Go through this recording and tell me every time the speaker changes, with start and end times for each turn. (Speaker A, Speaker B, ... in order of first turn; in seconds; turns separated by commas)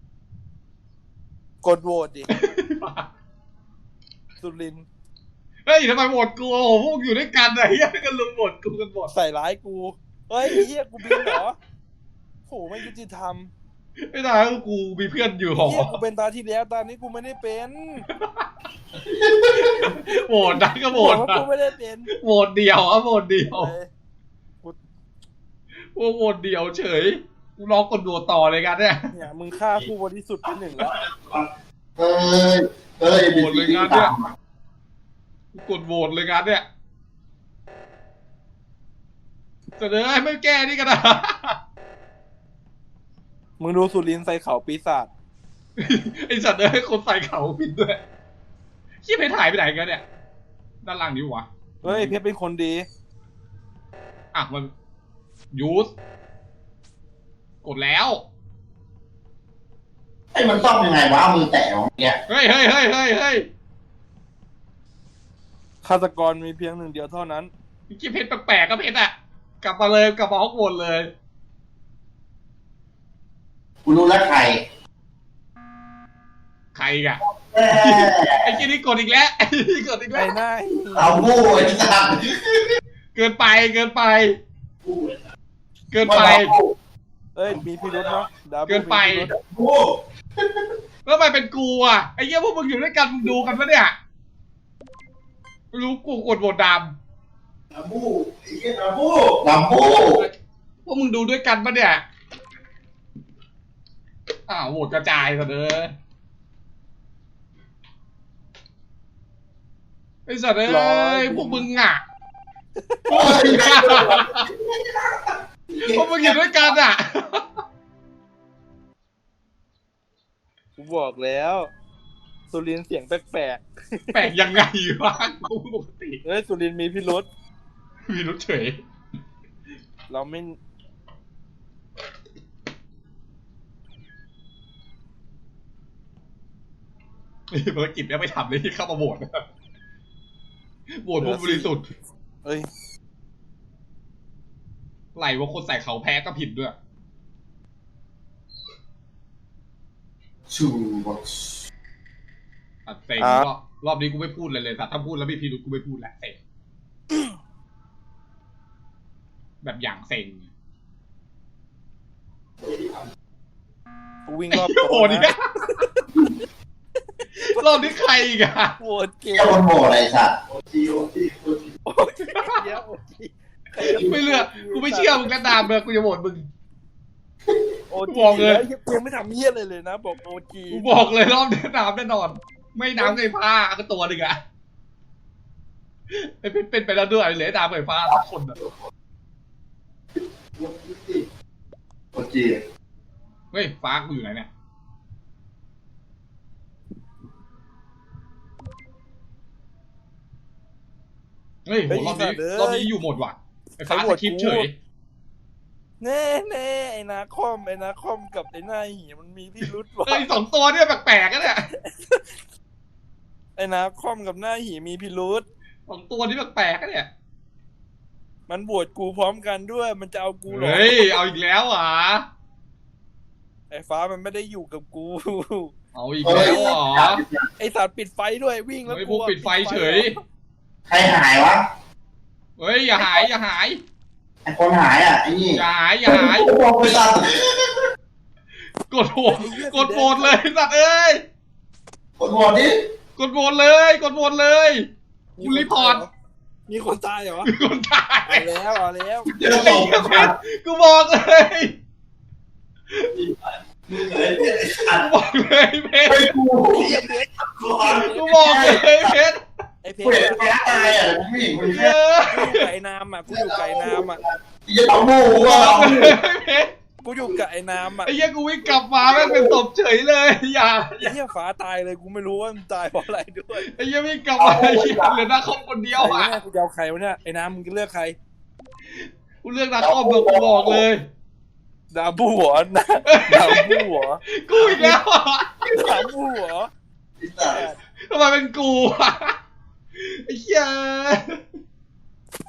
Speaker A: 1.6-2.3, Speaker B: 2.3-3.1, Speaker A: 4.4-4.8, Speaker B: 5.7-9.1, Speaker A: 9.1-11.6, Speaker B: 10.5-11.3, Speaker A: 12.5-13.5, Speaker B: 14.0-15.9, Speaker A: 15.6-18.1, Speaker C: 19.3-19.6, Speaker B: 19.5-21.4, Speaker A: 20.4-22.1, Speaker B: 22.1-23.7, Speaker A: 23.4-23.9, Speaker B: 25.9-29.0, Speaker A: 29.1-30.9, Speaker C: 32.0-34.3, Speaker B: 33.2-34.1, Speaker B: 35.5-36.6, Speaker B: 39.8-41.6, Speaker A: 43.6-45.1, Speaker B: 45.8-48.0, Speaker B: 49.0-50.0, Speaker B: 50.8-52.1, Speaker A: 51.8-52.9, Speaker B: 54.3-54.7, Speaker B: 55.5-55.9, Speaker B: 57.6-58.2, Speaker C: 60.3-62.2, Speaker B: 62.3-63.5, Speaker A: 65.8-67.5, Speaker B: 67.9-71.1, Speaker C: 73.8-74.6, Speaker B: 76.7-77.2, Speaker C: 77.2-78.6, Speaker B: 77.8-80.3, Speaker A: 80.1-81.3, Speaker C: 80.9-82.8, Speaker B: 83.1-84.3, Speaker D: 84.8-85.2, Speaker B: 85.9-86.5, Speaker C: 86.0-86.7, Speaker A: 87.3-89.3, Speaker B: 88.7-89.3, Speaker C: 89.5-89.9, Speaker B: 91.0-93.9, Speaker B: 95.7-96.9, Speaker D: 97.7-99.4, Speaker C: 99.4-100.2, Speaker B: 100.8-102.0, Speaker B: 104.5-105.9, Speaker B: 110.3-112.0, Speaker A: 110.7-111.7, Speaker B: 113.1-114.5, Speaker C: 113.1-116.7, Speaker B: 115.8-117.4, Speaker A: 120.8-121.7, Speaker A: 122.5-124.3, Speaker B: 124.1-126.2, Speaker A: 126.2-127.3, Speaker B: 128.1-128.8, Speaker A: 130.1-130.6, Speaker B: 137.5-139.4, Speaker B: 141.0-141.9, Speaker A: 141.2-141.7, Speaker A: 142.4-142.7, Speaker B: 145.1-146.7, Speaker C: 150.5-151.6, Speaker B: 152.8-156.4, Speaker A: 153.2-153.5, Speaker B: 159.6-160.5, Speaker D: 162.7-163.0, Speaker A: 164.2-165.3, Speaker B: 164.5-165.4, Speaker A: 167.2-167.9, Speaker B: 167.4-168.7, Speaker A: 168.8-169.6, Speaker C: 169.3-170.3, Speaker D: 170.5-171.7, Speaker A: 171.8-175.7, Speaker B: 173.8-176.5, Speaker A: 177.9-181.0, Speaker B: 178.1-178.6, Speaker B: 180.7-184.4, Speaker A: 183.0-183.3, Speaker B: 186.1-188.6, Speaker D: 190.6-191.2, Speaker C: 192.1-192.6, Speaker B: 193.5-194.5, Speaker B: 201.7-204.7, Speaker A: 201.9-202.9, Speaker A: 203.8-204.7, Speaker A: 206.0-210.3, Speaker B: 210.1-211.7, Speaker A: 211.7-212.3, Speaker A: 213.6-215.4, Speaker B: 215.9-217.1, Speaker A: 218.5-221.2, Speaker B: 220.5-222.2, Speaker A: 223.7-225.7, Speaker B: 225.9-227.2, Speaker C: 226.2-227.5, Speaker A: 226.3-226.6, Speaker A: 227.6-230.2, Speaker B: 228.8-230.2, Speaker C: 230.9-231.6, Speaker B: 232.6-233.8, Speaker C: 233.0-233.2, Speaker C: 234.4-237.8, Speaker B: 235.5-236.5, Speaker B: 238.9-241.2, Speaker A: 239.2-240.3, Speaker C: 242.2-242.8, Speaker B: 243.2-244.9, Speaker A: 245.4-246.1, Speaker B: 245.4-246.0, Speaker A: 246.7-247.5, Speaker B: 247.4-248.5, Speaker A: 248.2-249.3, Speaker C: 249.3-250.3, Speaker B: 249.5-251.7, Speaker D: 253.9-255.1, Speaker B: 254.9-256.3, Speaker C: 256.0-256.9, Speaker D: 256.7-258.1, Speaker A: 256.8-258.5, Speaker B: 258.1-259.4, Speaker C: 258.3-258.9, Speaker A: 259.8-260.9, Speaker C: 260.0-261.9, Speaker B: 261.5-262.6, Speaker A: 262.3-264.2, Speaker C: 263.3-266.2, Speaker B: 265.3-266.7, Speaker A: 267.0-268.1, Speaker B: 268.0-271.1, Speaker C: 269.0-269.6, Speaker A: 271.0-273.7, Speaker B: 273.5-276.3, Speaker C: 274.4-275.2, Speaker A: 275.9-278.2, Speaker B: 279.4-281.1, Speaker C: 279.8-280.8, Speaker A: 281.9-285.0, Speaker B: 283.1-285.5, Speaker A: 285.7-286.7, Speaker C: 287.2-287.6, Speaker A: 287.4-287.8, Speaker B: 288.1-289.3, Speaker B: 290.0-291.4